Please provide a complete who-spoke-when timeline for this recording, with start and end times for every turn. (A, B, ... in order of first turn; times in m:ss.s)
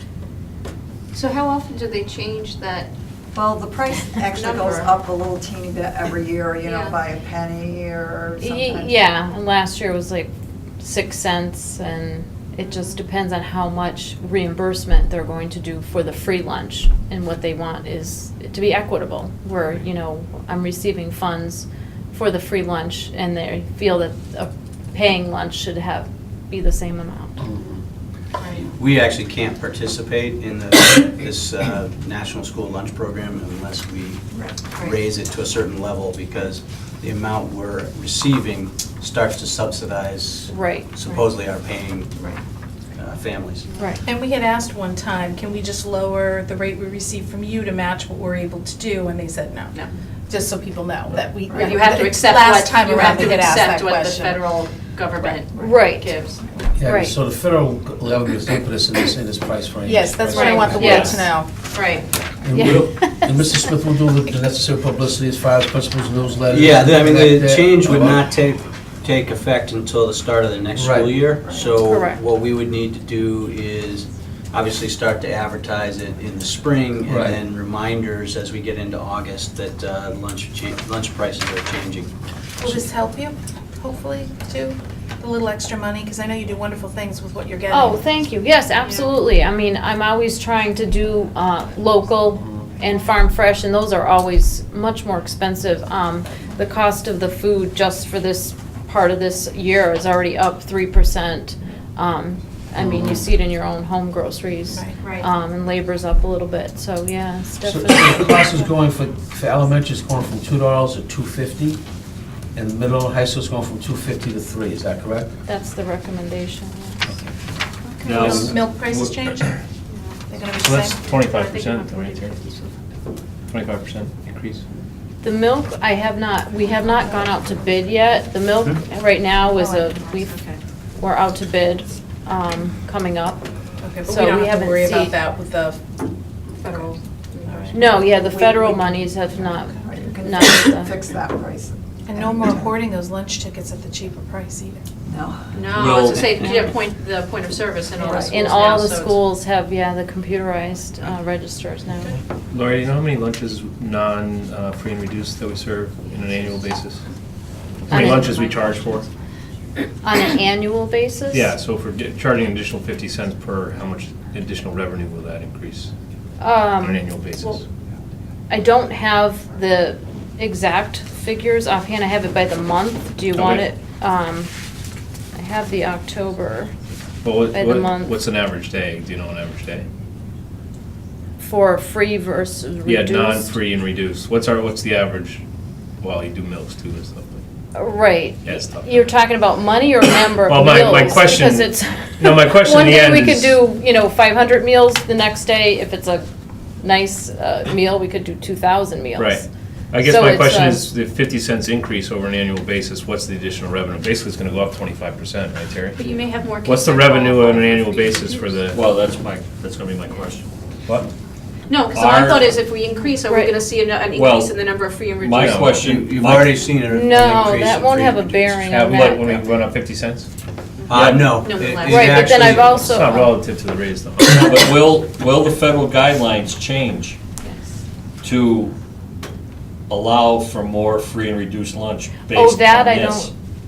0:01.1-0:02.9 A
0:03.3-0:09.0 B
0:04.3-0:04.9 A
0:06.6-0:07.0 A
0:08.4-0:27.4 C
0:27.4-0:27.8 D
0:28.6-0:42.2 E
0:40.5-0:40.9 C
0:42.9-0:43.7 E
0:44.0-0:49.8 F
0:50.3-0:54.4 F
0:51.5-0:51.8 B
0:51.5-0:56.4 A
0:55.6-0:56.1 C
0:56.8-1:01.1 D
0:56.8-0:57.1 C
0:59.8-1:01.6 F
1:00.3-1:00.6 A
1:00.4-1:01.2 C
1:00.8-1:01.2 G
1:01.7-1:02.0 A
1:02.4-1:08.3 D
1:02.5-1:03.4 C
1:06.4-1:22.1 E
1:10.8-1:11.2 D
1:11.8-1:12.2 C
1:17.0-1:17.4 D
1:22.6-1:28.1 F
1:27.7-1:48.7 C
1:42.8-1:43.3 D
1:44.7-1:45.0 F
1:45.0-1:45.3 A
1:47.6-1:51.8 D
1:52.5-1:55.3 D
1:55.4-1:57.1 C
1:58.0-1:58.8 G
1:58.1-1:59.5 F
1:58.2-1:58.5 D
1:59.9-2:00.2 A
2:00.3-2:01.0 F
2:00.6-2:02.4 H
2:01.0-2:02.7 A
2:03.5-2:04.6 H
2:05.2-2:10.3 C
2:09.6-2:10.6 A
2:11.0-2:13.4 C
2:13.8-2:15.8 F
2:14.0-2:15.1 C
2:16.6-2:17.8 A
2:16.6-2:16.9 F
2:17.4-2:19.0 F
2:17.7-2:20.9 C
2:19.8-2:22.7 B
2:22.0-2:24.8 F
2:25.1-2:26.4 B
2:25.5-2:29.2 A
2:25.7-2:26.3 G
2:26.1-2:26.7 E
2:28.0-2:28.8 B
2:28.3-2:32.1 C
2:32.5-2:37.0 H
2:37.8-2:39.1 H
2:37.9-2:38.3 C
2:40.0-2:41.5 C
2:41.3-2:45.9 H
2:46.4-2:47.5 C
2:46.8-2:47.6 H
2:48.5-2:54.5 C
2:53.3-2:53.7 H
2:55.3-2:56.7 C
2:57.2-2:59.9 H
2:57.5-2:58.1 C
3:01.4-3:03.5 C
3:02.8-3:05.4 H
3:06.0-3:07.4 H
3:07.7-3:16.2 C
3:08.4-3:09.1 H
3:10.4-3:13.6 H
3:16.8-3:19.4 C
3:19.1-3:28.8 H
3:20.0-3:20.8 C
3:26.0-3:28.5 A
3:28.7-3:30.5 G
3:31.7-3:35.8 A
3:31.9-3:32.6 G
3:33.3-3:33.5 C
3:34.1-3:36.6 G
3:35.3-3:35.8 H
3:35.7-3:38.6 E
3:36.8-3:39.4 C
3:38.6-3:40.3 H
3:40.8-3:42.8 E
3:40.9-3:41.3 G
3:41.0-3:44.8 H
3:41.4-3:42.1 A
3:41.9-3:43.4 C
3:44.3-3:47.2 G
3:48.2-3:48.8 G
3:49.9-3:53.3 G
3:52.3-3:53.3 C